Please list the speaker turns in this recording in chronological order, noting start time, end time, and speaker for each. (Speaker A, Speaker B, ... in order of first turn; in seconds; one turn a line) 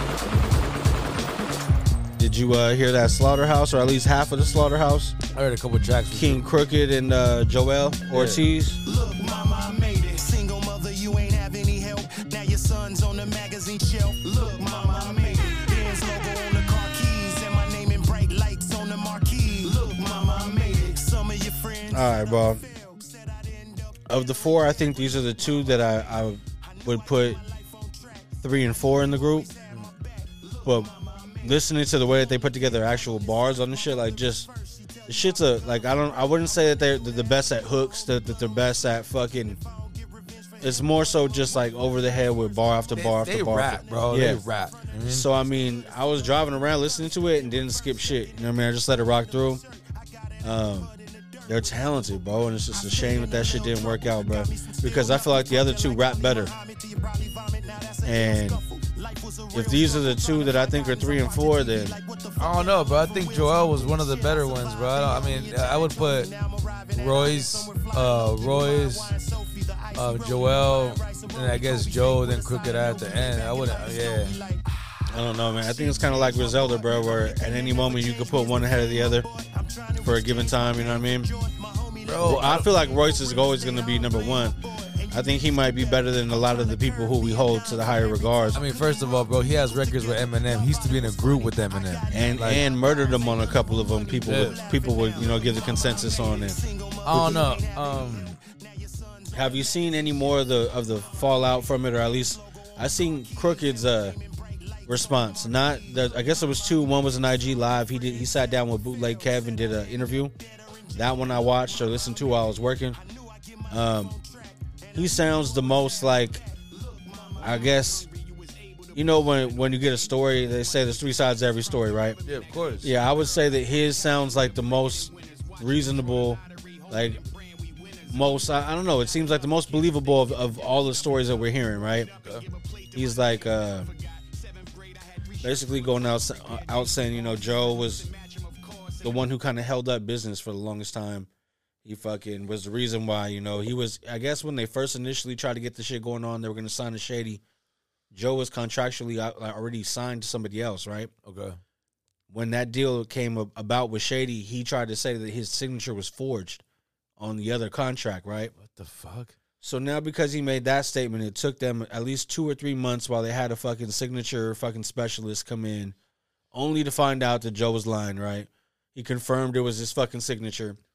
Speaker A: 2.2-5.2
Speaker B: 5.3-6.4
Speaker A: 6.1-8.8
Speaker B: 8.1-8.4
Speaker C: 8.8-42.9
Speaker A: 21.9-22.6
Speaker A: 24.1-27.4
Speaker A: 28.4-29.5
Speaker A: 30.6-30.9
Speaker A: 31.4-34.5
Speaker A: 35.0-39.6
Speaker A: 40.6-44.5
Speaker B: 42.9-45.3
Speaker A: 45.0-49.6
Speaker C: 45.4-52.0
Speaker A: 50.4-50.9
Speaker A: 51.5-56.5
Speaker C: 52.7-74.7
Speaker A: 58.0-58.6
Speaker A: 59.5-62.0
Speaker B: 62.4-66.3
Speaker B: 66.9-69.1
Speaker B: 69.9-74.4
Speaker A: 75.1-79.2
Speaker C: 75.4-106.9
Speaker A: 80.0-81.3
Speaker B: 82.0-82.6
Speaker A: 82.2-84.6
Speaker A: 85.1-88.6
Speaker B: 88.5-92.6
Speaker A: 92.1-96.6
Speaker B: 94.2-94.7
Speaker B: 97.0-98.4
Speaker A: 99.3-104.2
Speaker A: 104.8-110.3
Speaker C: 109.1-109.4
Speaker C: 110.3-120.7
Speaker A: 110.9-113.0
Speaker A: 113.7-114.1
Speaker A: 114.9-116.4
Speaker A: 117.4-118.0
Speaker A: 118.9-122.2
Speaker C: 121.7-122.1
Speaker B: 122.2-122.9
Speaker A: 122.8-127.2
Speaker A: 128.1-132.1
Speaker C: 130.8-131.3
Speaker C: 132.4-133.0
Speaker A: 132.9-133.9
Speaker C: 135.3-136.2
Speaker A: 135.4-138.1
Speaker C: 136.8-139.1
Speaker A: 139.0-141.3
Speaker A: 141.8-147.4
Speaker A: 148.1-151.1
Speaker B: 151.2-151.6
Speaker A: 152.3-156.6
Speaker A: 157.2-158.5
Speaker B: 158.5-159.3
Speaker A: 159.6-165.9
Speaker A: 166.5-170.8